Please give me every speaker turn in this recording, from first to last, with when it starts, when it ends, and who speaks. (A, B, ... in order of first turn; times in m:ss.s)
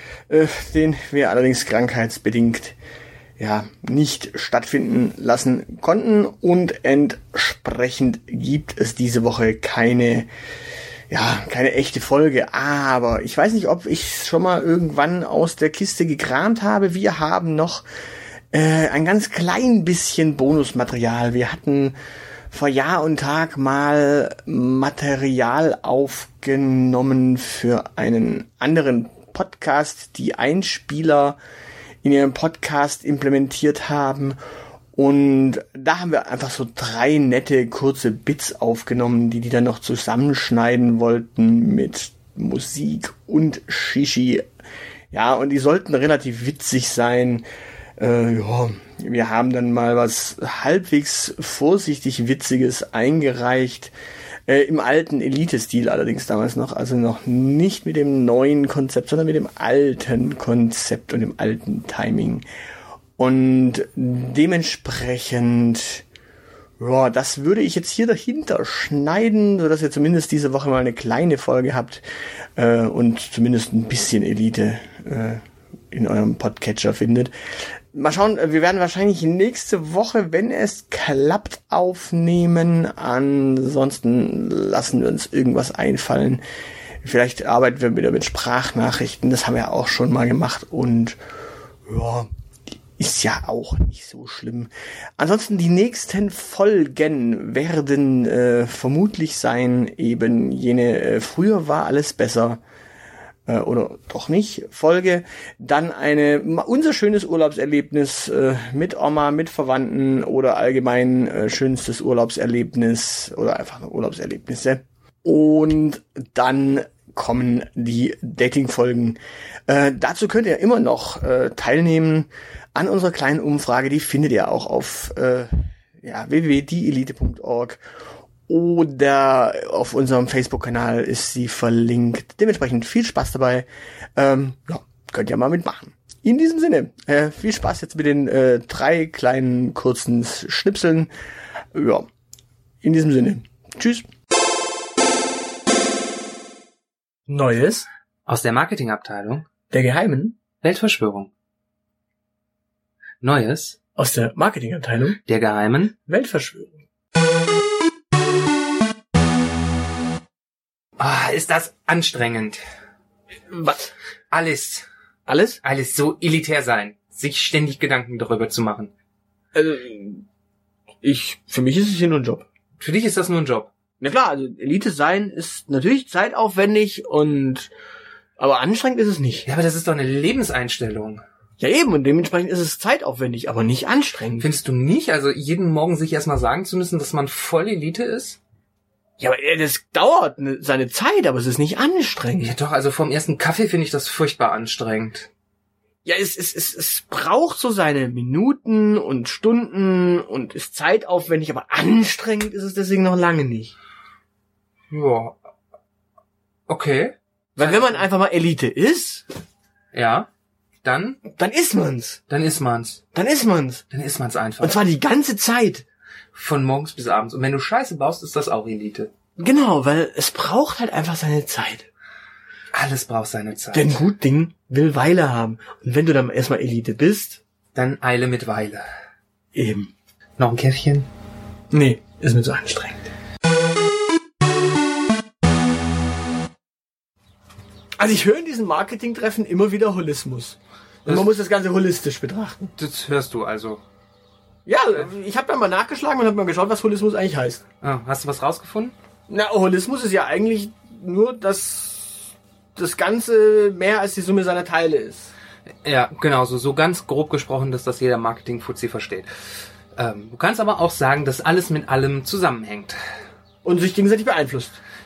0:00.3-0:02.7 A
0:03.4-0:10.3 A
0:11.1-0:17.8 A
0:18.5-0:22.0 A
0:22.5-0:31.4 A
0:32.0-0:34.4 A
0:35.0-0:44.4 A
0:45.1-0:47.4 A
0:48.0-0:53.9 A
0:54.5-1:02.4 A
1:03.2-1:06.0 A
1:06.8-1:12.0 A
1:12.6-1:17.3 A
1:17.9-1:26.4 A
1:27.0-1:31.2 A
1:31.8-1:32.3 A
1:33.0-1:42.6 A
1:43.5-2:07.8 A
2:08.5-2:21.1 A
2:21.7-2:22.1 A
2:22.8-2:24.0 A
2:27.3-2:27.9 A
2:28.3-2:29.4 B
2:29.7-2:30.4 A
2:30.6-2:31.3 B
2:33.2-2:33.8 B
2:34.0-2:35.2 A
2:35.3-2:35.9 B
2:36.0-2:36.8 A
2:41.0-2:42.6 B
2:43.5-2:43.9 A
2:44.3-2:44.8 B
2:45.2-2:45.6 A
2:45.6-2:48.9 B
2:49.5-2:50.2 A
2:51.0-2:52.4 A
2:52.8-2:53.7 B
2:54.0-2:57.7 A
2:58.4-2:59.5 A
2:59.4-3:01.2 B
3:01.6-3:04.5 A
3:04.4-3:08.4 B
3:09.2-3:12.5 A
3:12.4-3:15.3 B
3:16.0-3:23.7 A
3:24.9-3:25.4 B
3:26.7-3:28.1 B
3:27.6-3:29.2 A
3:29.9-3:30.3 B
3:30.8-3:31.2 B
3:31.3-3:32.2 A
3:32.3-3:33.0 B
3:33.1-3:33.8 A
3:33.9-3:34.8 B
3:34.6-3:35.8 A
3:36.3-3:39.1 B
3:39.4-3:41.9 A
3:42.7-3:44.0 B
3:43.7-3:47.4 A
3:47.7-3:48.8 B
3:49.5-3:49.9 A
3:50.4-3:51.1 B
3:51.7-3:53.1 A
3:58.0-4:02.7 A
4:01.0-4:01.3 B
4:02.8-4:03.8 B
4:04.6-4:07.6 A
4:07.8-4:08.9 B
4:09.3-4:15.3 A
4:15.8-4:19.3 B
4:19.9-4:23.0 B
4:23.6-4:24.8 A